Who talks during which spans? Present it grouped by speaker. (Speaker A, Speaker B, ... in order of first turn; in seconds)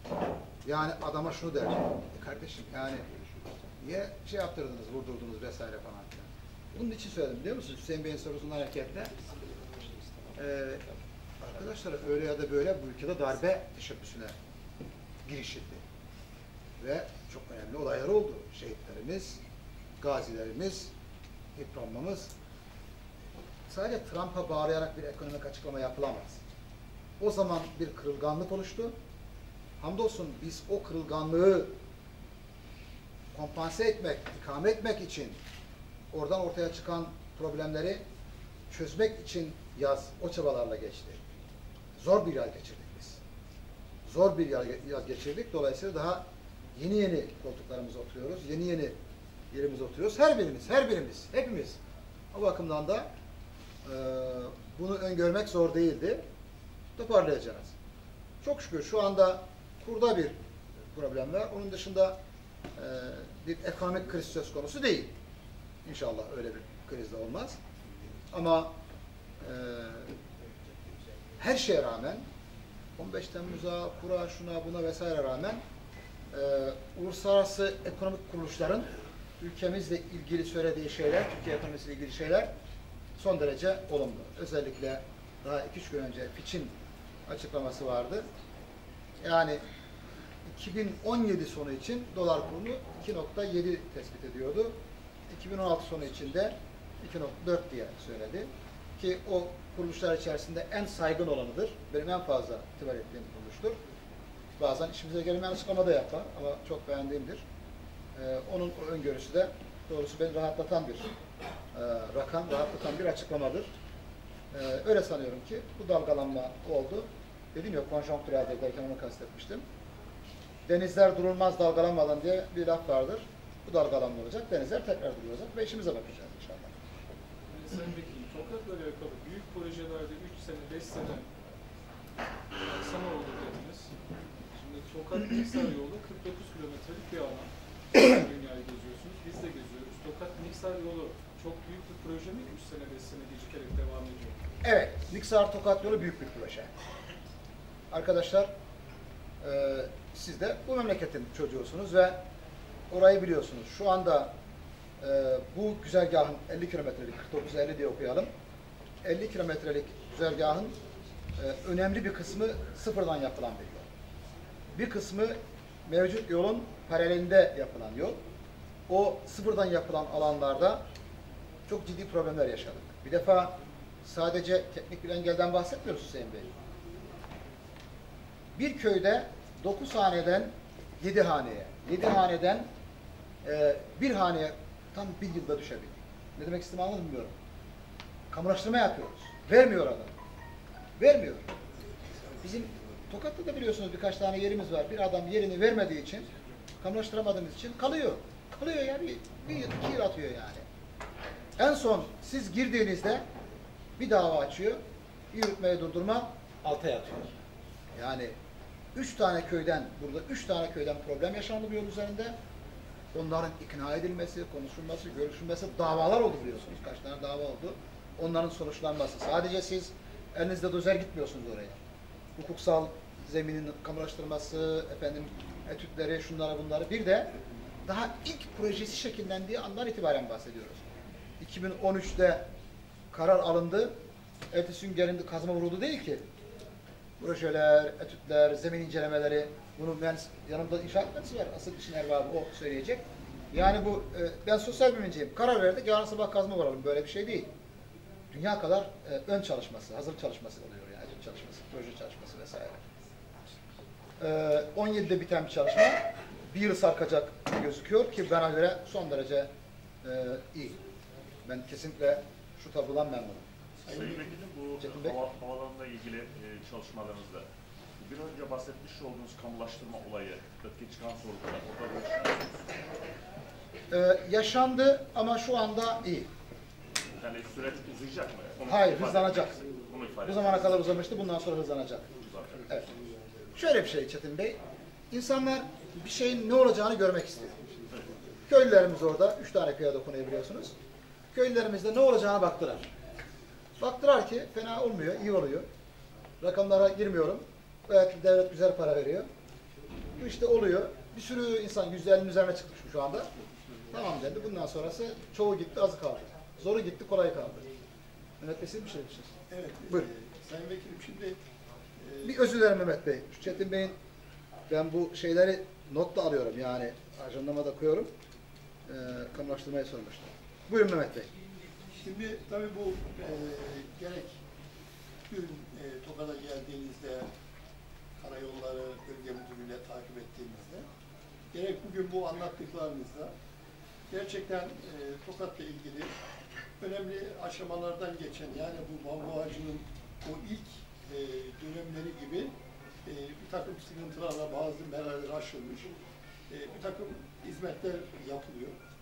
Speaker A: 0.7-3.0, 3.8-9.1, 10.4-10.9, 11.4-14.3, 15.2-15.8, 16.8-19.4, 20.0-20.9, 21.6-22.3, 23.7-26.4, 27.2-28.9, 29.8-31.8, 33.3-35.4, 36.1-38.0, 38.7-41.3, 42.0-43.2, 44.0-49.0, 49.5-51.8, 52.3-53.1, 53.9-56.2, 57.0-57.7, 58.4-60.4, 60.9-62.2, 62.8-65.1, 65.8-67.6, 68.3-68.8, 69.4-70.1, 71.4-72.3, 73.0-75.6, 76.3-78.9, 79.4-82.5, 83.2-86.7, 87.3-88.3, 89.2-89.6, 90.5-94.8, 95.3-103.8, 104.6-107.4, 108.2-111.1, 111.7-113.7, 114.5-119.7, 120.7-126.7, 144.6-146.7, 147.9-148.5, 149.4-152.2, 152.9-154.3, 155.0-158.3, 159.0-160.8, 161.4-163.9, 164.7-168.2, 168.9-170.8, 171.7-176.5, 178.6-182.7, 183.4-187.4, 188.3-190.2, 191.0-191.5, 192.4-196.3, 196.8-200.7, 201.6-203.2, 204.0-204.8, 205.3-207.4, 207.9-208.4, 208.9-212.4, 213.1-221.8, 222.4-227.3, 227.8-230.9, 231.4-232.5, 233.1-233.9, 234.5-236.3, 237.2-247.5, 248.3-252.8, 254.2-259.5, 260.0-260.8, 261.4-263.5, 264.8-265.2, 273.9-276.3, 278.7-279.6, 280.2-282.1, 283.6-284.6, 285.1-287.6, 288.5-290.8, 291.3-292.9, 293.8-295.7, 296.4-299.3, 300.2-303.3, 303.9-307.6, 308.4-309.3, 312.2-314.0, 314.7-318.1, 318.9-321.3
Speaker B: 127.5-131.3, 132.6-133.9, 134.5-144.4
Speaker C: 263.8-264.4, 309.5-311.4, 312.0-312.4, 322.0-324.4, 325.3-327.3, 328.2-330.9, 331.5-333.3, 334.1-336.1, 336.8-342.5, 343.1-345.9, 346.5-348.8
Speaker D: 263.9-267.5, 268.0-272.5, 277.1-281.1, 282.2-282.7